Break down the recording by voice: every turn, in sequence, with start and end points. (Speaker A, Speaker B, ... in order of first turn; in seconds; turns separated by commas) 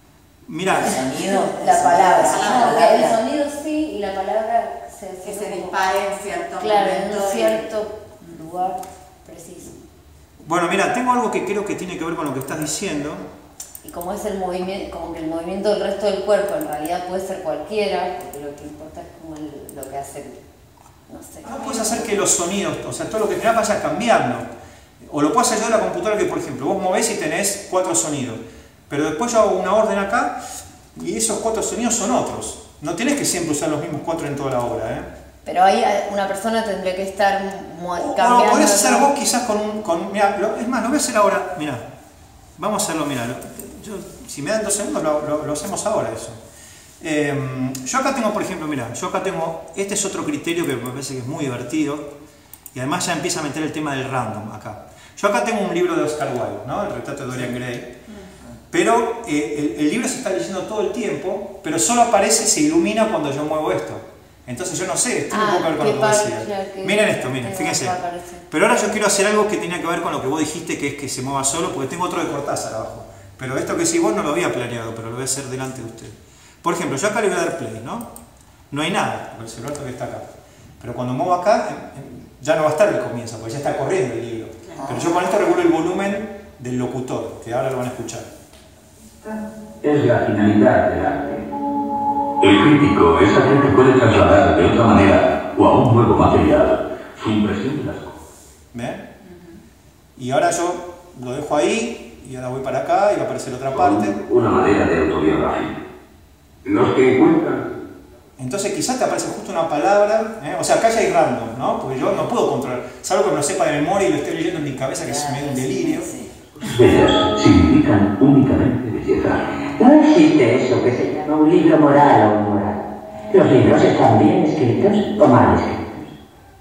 Speaker A: 0.5-1.1, Speaker B: 0.7-3.2, Speaker C: 1.5-5.8, Speaker D: 2.2-3.0, Speaker D: 5.2-7.7, Speaker C: 6.6-9.8, Speaker A: 10.4-13.3, Speaker C: 13.8-20.4, Speaker C: 21.1-22.2, Speaker A: 21.4-24.5, Speaker A: 25.0-30.4, Speaker A: 30.9-35.1, Speaker C: 35.4-39.1, Speaker A: 37.9-41.9, Speaker A: 42.6-46.4, Speaker A: 47.0-52.1, Speaker A: 52.7-57.9, Speaker A: 58.7-68.0, Speaker C: 65.3-68.5, Speaker A: 68.5-78.1, Speaker A: 78.7-80.3, Speaker A: 80.8-88.3, Speaker D: 84.7-85.1, Speaker E: 89.8-91.5, Speaker E: 92.4-98.2, Speaker A: 98.7-99.0, Speaker A: 100.2-104.2, Speaker E: 103.7-105.8, Speaker E: 106.6-107.8, Speaker A: 108.4-116.1, Speaker B: 115.0-116.3, Speaker E: 116.7-119.6, Speaker F: 119.8-126.1